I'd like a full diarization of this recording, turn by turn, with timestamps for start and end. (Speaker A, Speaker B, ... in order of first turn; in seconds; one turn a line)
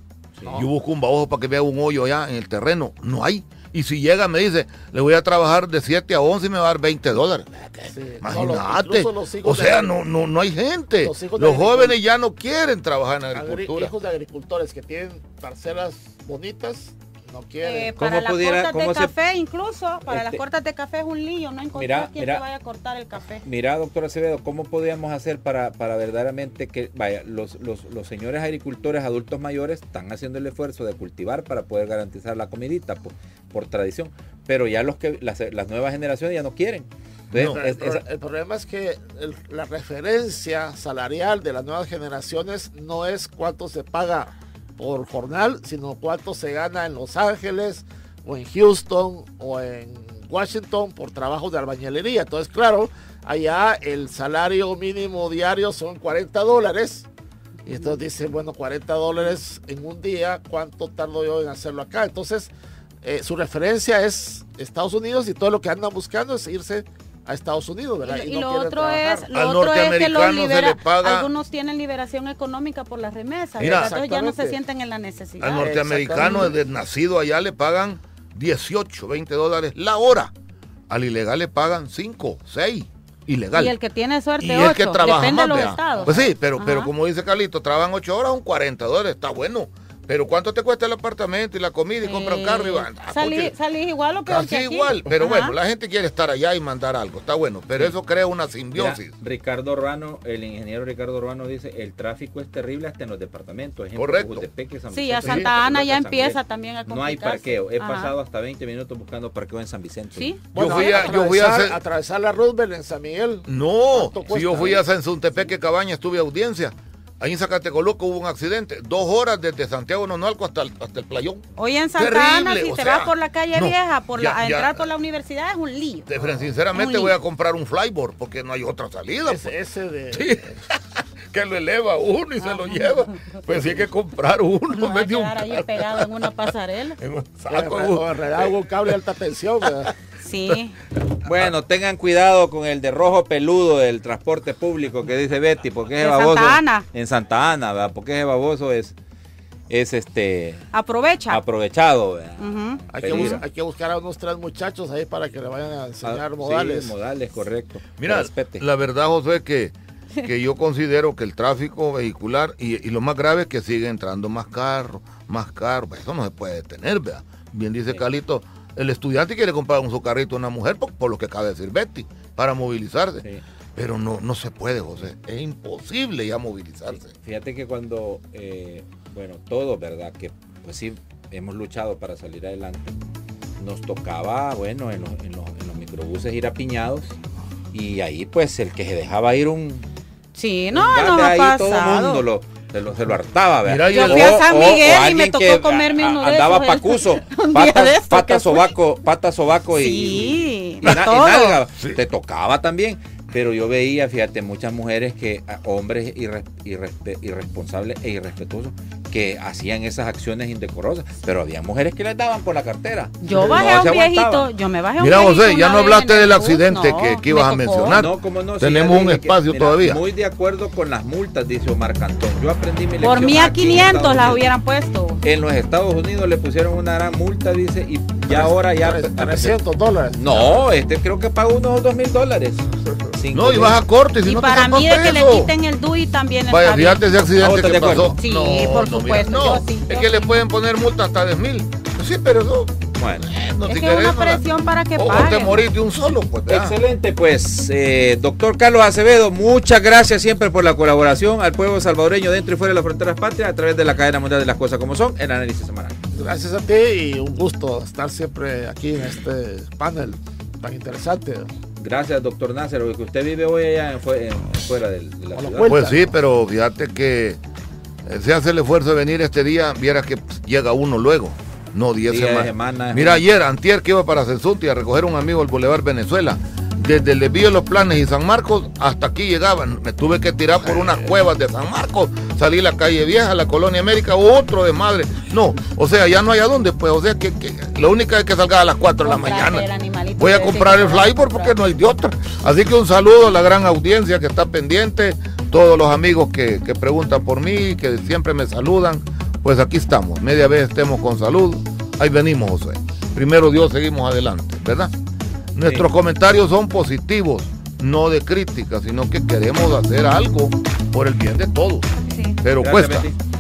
Speaker A: 0.4-0.6
Speaker B: 0.5-13.9
Speaker C: 7.9-10.0
Speaker C: 11.0-12.0
Speaker C: 13.3-18.0
Speaker D: 17.6-23.4
Speaker A: 18.0-19.1
Speaker A: 20.1-20.4
Speaker A: 21.8-22.4
Speaker A: 23.4-38.0
Speaker B: 37.3-37.6
Speaker C: 37.4-57.1
Speaker C: 57.6-62.5
Speaker C: 63.0-69.3
Speaker D: 68.0-76.5
Speaker B: 69.3-71.3
Speaker C: 73.6-74.6
Speaker B: 73.6-73.9
Speaker B: 75.4-80.3
Speaker C: 75.4-76.6
Speaker B: 80.9-83.7
Speaker D: 83.5-86.9
Speaker B: 84.4-93.5
Speaker C: 86.0-86.3
Speaker D: 92.0-95.5
Speaker B: 94.3-99.1
Speaker A: 98.7-110.4
Speaker B: 104.0-104.5
Speaker D: 104.9-108.1
Speaker B: 105.2-105.5
Speaker D: 110.2-111.2
Speaker C: 110.5-114.9
Speaker B: 110.5-111.8
Speaker B: 113.5-121.4
Speaker D: 121.6-126.1
Speaker B: 122.0-124.9
Speaker B: 126.1-129.5
Speaker D: 126.7-127.2
Speaker C: 129.2-130.6
Speaker B: 130.1-136.5
Speaker D: 132.4-133.4
Speaker D: 134.7-137.0
Speaker B: 137.0-139.0
Speaker C: 137.5-139.9
Speaker D: 140.2-140.8
Speaker B: 141.0-141.5
Speaker A: 141.2-148.9
Speaker D: 146.0-146.8
Speaker A: 149.7-150.7
Speaker D: 150.7-151.4
Speaker A: 151.3-153.4
Speaker D: 152.4-153.4
Speaker C: 152.9-156.9
Speaker A: 156.0-158.7
Speaker B: 158.0-173.2
Speaker B: 173.8-177.1
Speaker A: 176.9-183.0
Speaker A: 183.6-187.2
Speaker A: 187.7-189.9
Speaker D: 190.3-192.2
Speaker A: 190.7-214.5
Speaker B: 193.7-194.4
Speaker D: 193.9-198.7
Speaker D: 199.7-201.6
Speaker D: 213.2-218.0
Speaker B: 213.3-213.7
Speaker B: 215.0-220.0
Speaker A: 217.9-224.5
Speaker D: 223.0-225.2
Speaker A: 225.2-229.6
Speaker C: 228.3-230.6
Speaker A: 230.1-233.8
Speaker B: 233.3-235.5
Speaker D: 234.2-237.0
Speaker B: 236.5-244.4
Speaker A: 237.4-238.2
Speaker D: 238.2-240.3
Speaker A: 243.0-243.3
Speaker D: 243.6-245.7
Speaker B: 245.0-246.8
Speaker A: 246.5-255.9
Speaker C: 256.1-261.5
Speaker A: 261.8-265.7
Speaker C: 265.3-266.1
Speaker B: 265.7-267.4
Speaker B: 268.1-289.7
Speaker A: 272.1-273.2
Speaker D: 289.0-291.6
Speaker B: 290.2-304.9
Speaker B: 305.6-311.9
Speaker A: 305.6-305.9
Speaker D: 312.1-312.4
Speaker B: 312.4-313.1
Speaker A: 312.6-313.2